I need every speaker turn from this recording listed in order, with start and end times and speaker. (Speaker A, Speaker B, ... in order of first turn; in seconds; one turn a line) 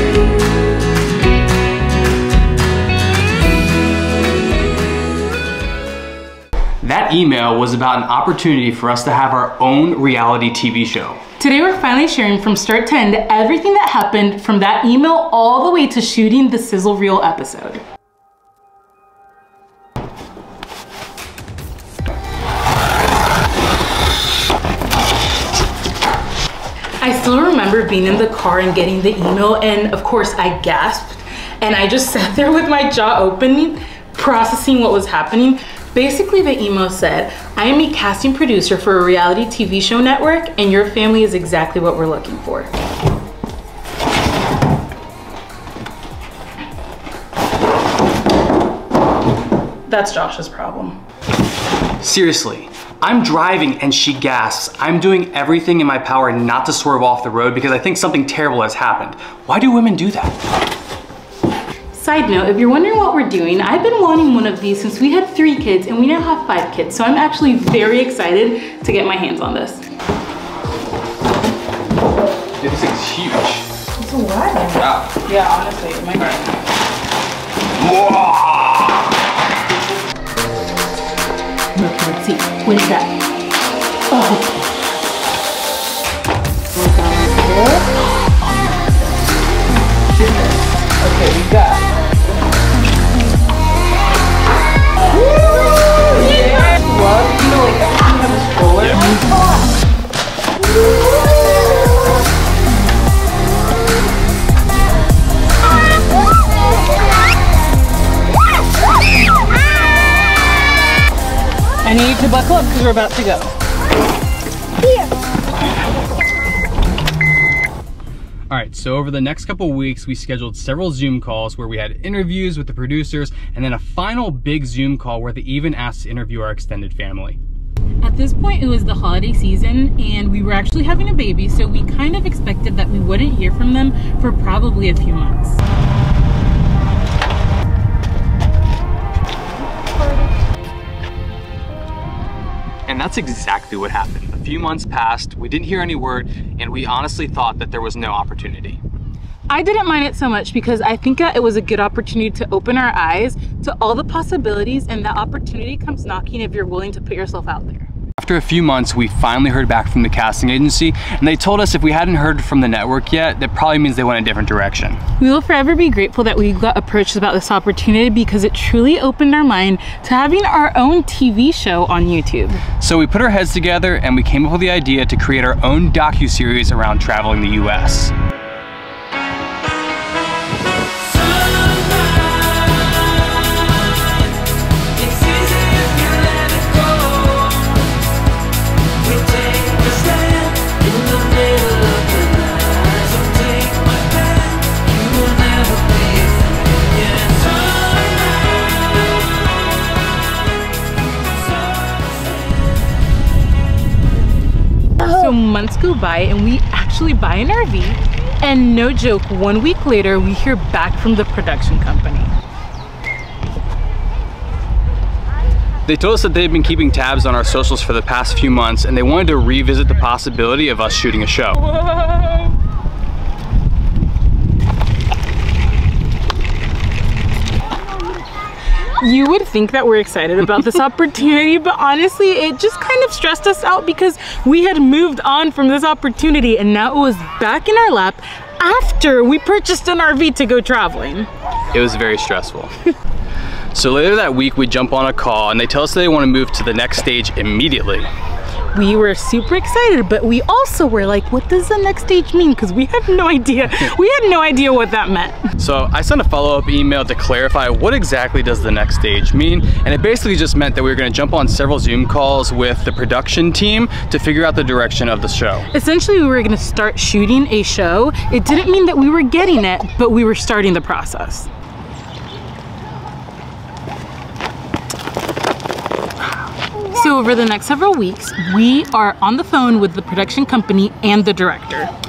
Speaker A: 6.8-11.2
Speaker B: 11.4-17.8
Speaker B: 27.0-42.7
Speaker B: 49.9-51.0
Speaker A: 52.0-60.4
Speaker B: 61.9-69.8
Speaker A: 72.6-73.7
Speaker B: 74.0-76.5
Speaker A: 74.8-75.1
Speaker A: 77.8-79.0
Speaker B: 81.7-83.1
Speaker B: 84.1-84.7
Speaker B: 86.8-88.7
Speaker B: 91.0-91.8
Speaker B: 95.1-99.7
Speaker B: 111.8-113.5
Speaker A: 118.5-127.4
Speaker B: 128.0-135.6
Speaker A: 142.9-148.8
Speaker B: 149.5-157.9
Speaker A: 158.2-165.0
Speaker B: 165.2-172.6
Speaker A: 172.8-178.1
Speaker B: 191.6-193.1
Speaker B: 205.0-212.3
Speaker A: 215.8-221.7
Speaker B: 229.0-241.3
Speaker A: 241.7-242.7
Speaker A: 243.7-248.1
Speaker B: 248.7-255.4
Speaker A: 255.6-265.7
Speaker B: 265.7-271.5
Speaker B: 276.9-281.9